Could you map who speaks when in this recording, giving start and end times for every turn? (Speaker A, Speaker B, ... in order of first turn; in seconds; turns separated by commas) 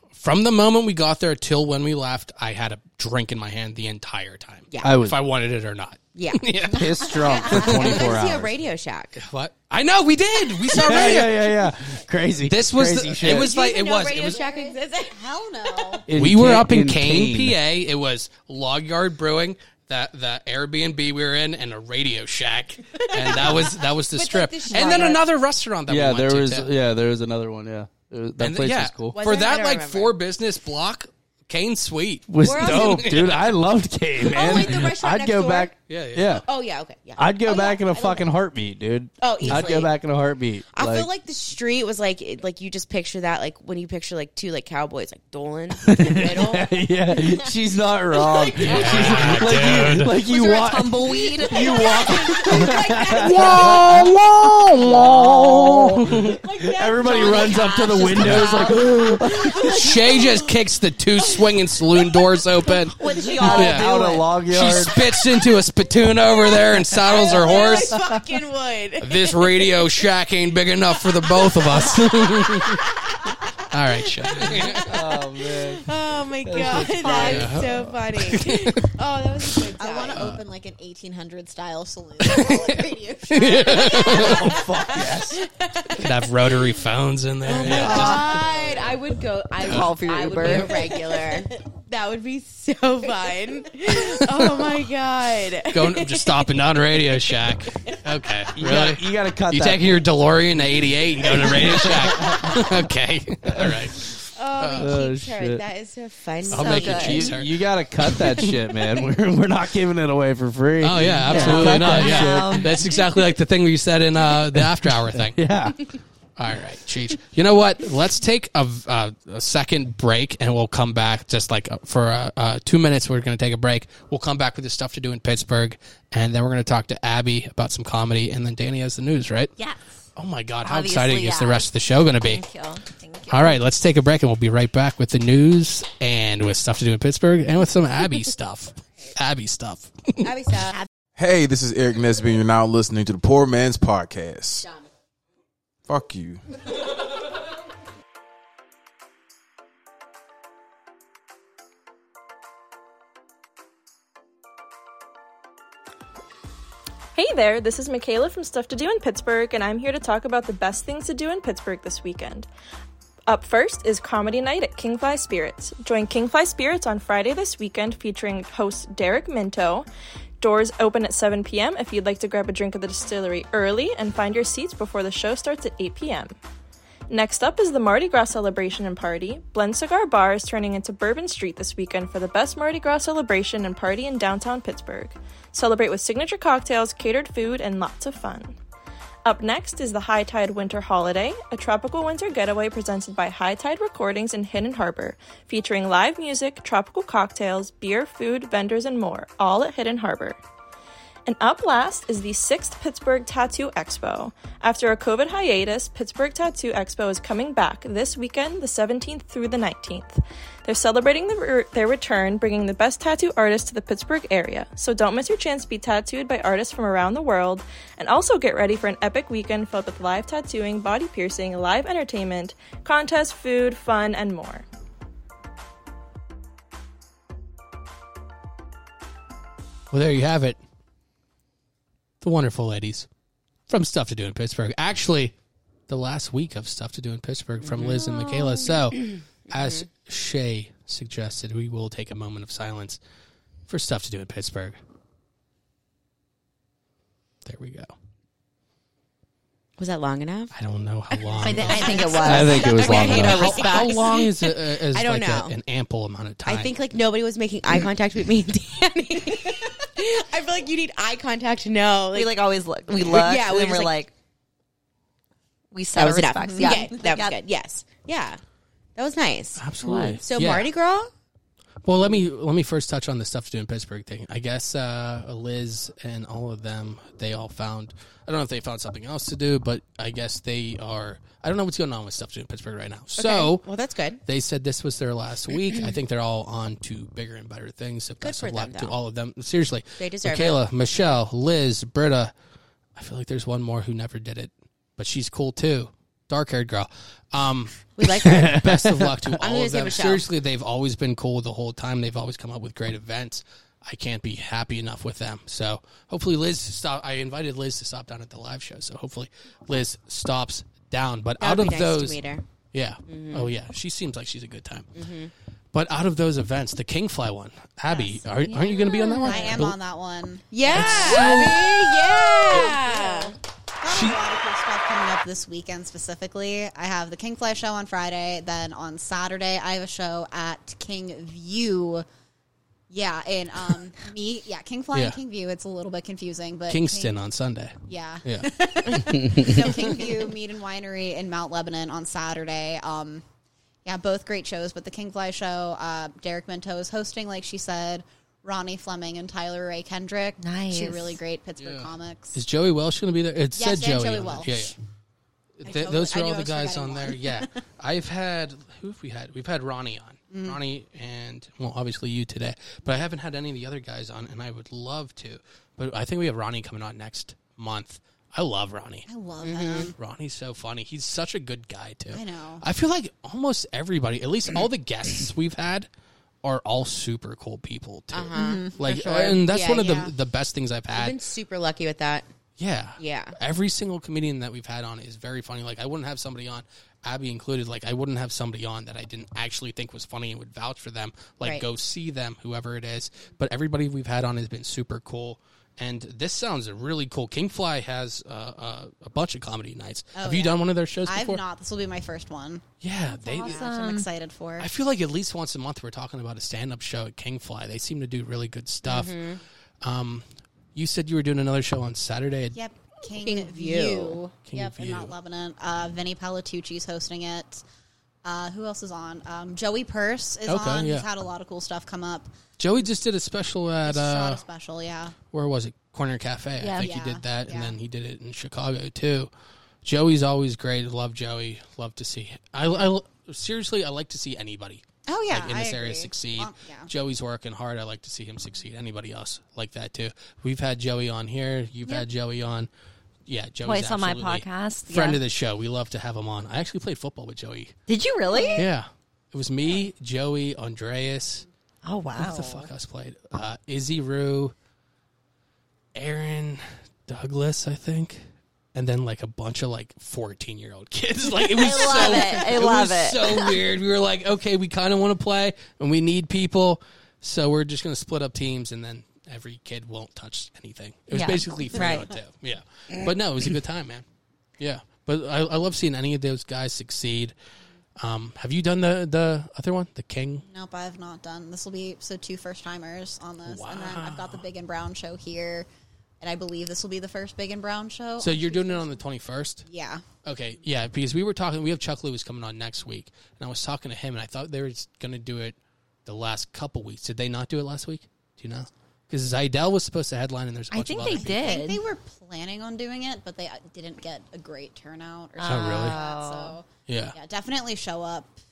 Speaker A: 0.1-8.0, Speaker B: 4.8-5.2, Speaker C: 6.2-6.4, Speaker B: 6.7-8.5, Speaker C: 7.3-9.2, Speaker A: 9.2-11.4, Speaker B: 10.7-13.5, Speaker A: 12.4-14.4, Speaker C: 13.2-16.0, Speaker D: 14.2-16.1, Speaker B: 16.1-17.6, Speaker A: 16.1-26.7, Speaker C: 23.1-25.2, Speaker B: 25.9-29.2, Speaker A: 28.4-33.5, Speaker C: 29.1-30.1, Speaker B: 32.3-36.4, Speaker C: 32.4-33.3, Speaker C: 34.2-35.7, Speaker A: 34.5-34.9, Speaker A: 35.9-36.4, Speaker C: 36.4-38.3, Speaker B: 37.2-41.1, Speaker C: 39.2-39.9, Speaker A: 39.4-39.7, Speaker C: 40.7-46.7, Speaker B: 45.8-59.9, Speaker A: 48.6-50.1, Speaker E: 50.2-52.5, Speaker C: 51.5-54.3, Speaker D: 52.7-53.6, Speaker A: 56.0-56.4, Speaker D: 56.4-58.0, Speaker E: 57.0-58.9, Speaker A: 58.2-58.6, Speaker A: 59.7-63.9, Speaker C: 59.8-60.3, Speaker E: 63.0-64.3, Speaker B: 63.4-65.0, Speaker A: 64.5-67.9, Speaker C: 67.0-69.7, Speaker A: 69.0-72.9, Speaker C: 71.3-73.5, Speaker A: 73.7-74.9, Speaker C: 74.2-80.2, Speaker B: 74.8-75.9, Speaker B: 76.4-77.9, Speaker A: 77.1-78.7, Speaker D: 79.8-84.1, Speaker A: 80.1-80.4, Speaker A: 82.2-82.8, Speaker A: 83.3-84.4, Speaker C: 83.6-86.7, Speaker B: 83.9-85.4, Speaker A: 86.0-88.4, Speaker C: 87.4-96.5, Speaker B: 87.7-88.2, Speaker E: 87.8-88.2, Speaker E: 89.6-90.9, Speaker A: 95.7-104.9, Speaker B: 98.5-100.0, Speaker B: 101.2-102.6, Speaker B: 103.5-103.9, Speaker C: 104.3-107.2, Speaker B: 104.7-105.6, Speaker A: 106.5-108.5, Speaker E: 106.5-107.3, Speaker B: 106.8-112.8, Speaker A: 110.8-115.4, Speaker E: 111.2-112.8, Speaker B: 114.3-115.9, Speaker A: 116.4-129.5, Speaker A: 130.2-132.4, Speaker E: 130.6-133.6, Speaker A: 133.3-140.2, Speaker C: 140.2-140.8, Speaker F: 141.2-144.7, Speaker F: 145.9-146.4, Speaker G: 157.1-162.5, Speaker G: 163.3-169.9, Speaker G: 170.4-176.3, Speaker G: 177.1-188.6, Speaker G: 189.2-200.4, Speaker G: 201.2-224.6, Speaker A: 229.9-230.6, Speaker A: 232.2-233.1, Speaker A: 233.7-235.3, Speaker A: 235.9-243.0, Speaker C: 237.6-239.8, Speaker A: 243.7-244.8, Speaker A: 247.4-247.9, Speaker C: 249.8-250.5, Speaker A: 250.5-252.2, Speaker C: 251.3-255.5, Speaker E: 251.4-254.1, Speaker B: 252.2-253.6, Speaker A: 252.8-256.7, Speaker C: 256.4-264.0, Speaker E: 262.1-264.1, Speaker E: 265.7-267.4, Speaker C: 265.9-268.4, Speaker C: 268.9-271.1, Speaker A: 269.6-270.7, Speaker E: 269.8-270.2, Speaker A: 271.8-283.6, Speaker C: 283.2-284.2, Speaker A: 284.2-292.3, Speaker C: 288.2-288.9, Speaker C: 290.0-290.6, Speaker A: 293.0-297.8, Speaker C: 298.0-298.6, Speaker B: 298.2-299.3, Speaker A: 298.3-312.2, Speaker C: 299.4-300.2, Speaker C: 311.4-312.4, Speaker A: 312.7-314.9, Speaker C: 313.1-313.5, Speaker C: 314.9-315.3, Speaker A: 315.7-319.8, Speaker D: 317.9-318.2, Speaker E: 318.4-319.6, Speaker D: 319.2-321.5, Speaker C: 320.5-323.3, Speaker A: 320.6-321.9, Speaker D: 322.5-332.1, Speaker A: 323.9-324.2, Speaker D: 332.9-337.1, Speaker A: 336.7-338.5, Speaker D: 337.9-343.2, Speaker B: 339.2-339.5, Speaker D: 343.8-352.4, Speaker E: 350.4-351.2, Speaker A: 351.6-354.7, Speaker D: 353.6-354.7, Speaker A: 355.6-369.1, Speaker D: 355.6-357.5, Speaker D: 360.3-360.6, Speaker D: 369.1-369.9, Speaker C: 369.4-369.9, Speaker A: 370.0-375.9, Speaker D: 372.1-372.6, Speaker A: 376.4-381.1, Speaker C: 378.1-380.1, Speaker E: 378.3-378.8, Speaker C: 380.9-382.3, Speaker A: 382.6-401.4, Speaker C: 383.0-383.4, Speaker D: 400.1-404.7, Speaker A: 402.8-403.6, Speaker E: 403.2-404.1, Speaker A: 404.6-409.1, Speaker C: 408.8-409.4, Speaker A: 409.8-410.2, Speaker A: 410.7-412.6, Speaker D: 412.5-417.6, Speaker C: 413.2-414.2, Speaker A: 414.5-415.1, Speaker D: 418.2-422.3, Speaker A: 420.4-421.1, Speaker A: 422.6-424.4, Speaker D: 423.9-425.1, Speaker A: 425.3-429.3, Speaker E: 426.6-426.9, Speaker D: 426.7-427.7, Speaker A: 429.8-442.7, Speaker D: 435.1-436.9, Speaker A: 443.3-447.8, Speaker E: 443.6-445.2, Speaker E: 447.9-448.7, Speaker A: 448.5-451.4, Speaker E: 451.8-452.7, Speaker A: 452.2-454.5, Speaker A: 455.9-458.2, Speaker A: 458.7-474.0, Speaker E: 461.5-463.6, Speaker E: 471.1-472.1, Speaker A: 474.6-477.3, Speaker A: 478.0-480.4, Speaker D: 480.4-485.7, Speaker A: 483.4-484.4, Speaker D: 486.2-489.0, Speaker A: 488.2-489.6, Speaker D: 489.6-490.0, Speaker A: 490.2-501.4, Speaker E: 500.7-501.8, Speaker D: 501.1-508.3, Speaker E: 505.4-506.6, Speaker A: 505.4-505.9, Speaker A: 506.9-507.1